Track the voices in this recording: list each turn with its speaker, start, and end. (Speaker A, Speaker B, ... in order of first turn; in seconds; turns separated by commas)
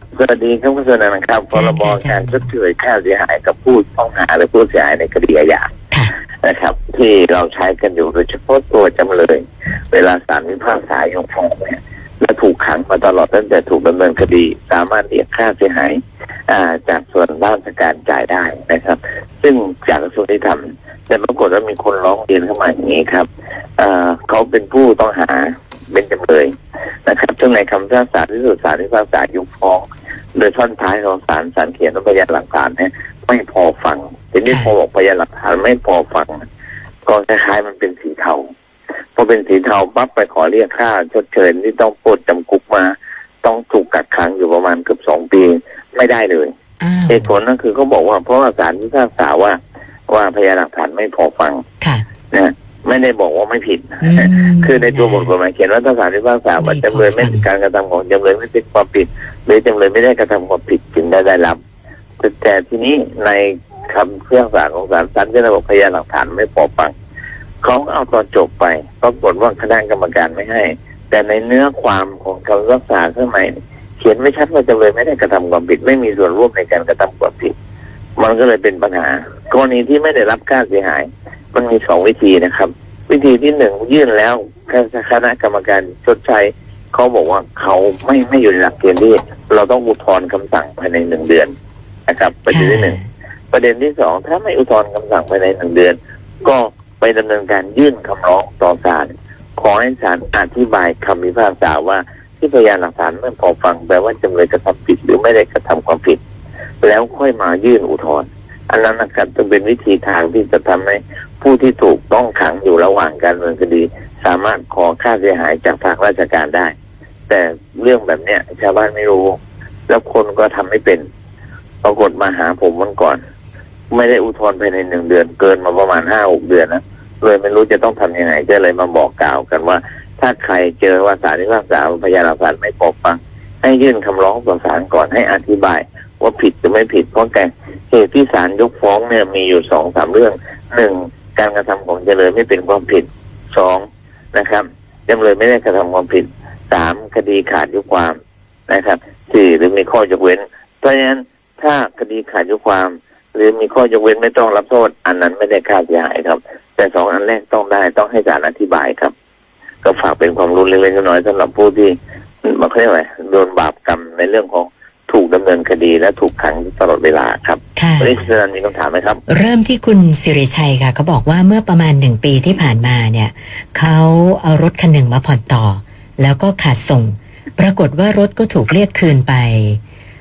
Speaker A: 0.1-5.7, Speaker B: 1.5-2.5, Speaker A: 6.4-26.5, Speaker A: 27.1-36.4, Speaker B: 34.5-34.7, Speaker A: 37.0-38.4, Speaker A: 39.1-46.5, Speaker B: 46.8-47.3, Speaker A: 47.1-51.6, Speaker A: 52.3-61.6, Speaker B: 54.0-55.3, Speaker B: 56.6-57.5, Speaker A: 62.2-66.9, Speaker A: 67.6-77.5, Speaker A: 78.2-91.5, Speaker A: 92.1-93.0, Speaker B: 92.5-93.1, Speaker A: 93.5-106.2, Speaker A: 106.8-116.7, Speaker A: 117.3-121.0, Speaker A: 121.8-123.2, Speaker A: 123.9-148.1, Speaker A: 148.7-159.1, Speaker A: 159.8-169.2, Speaker B: 167.8-168.2, Speaker B: 169.3-179.8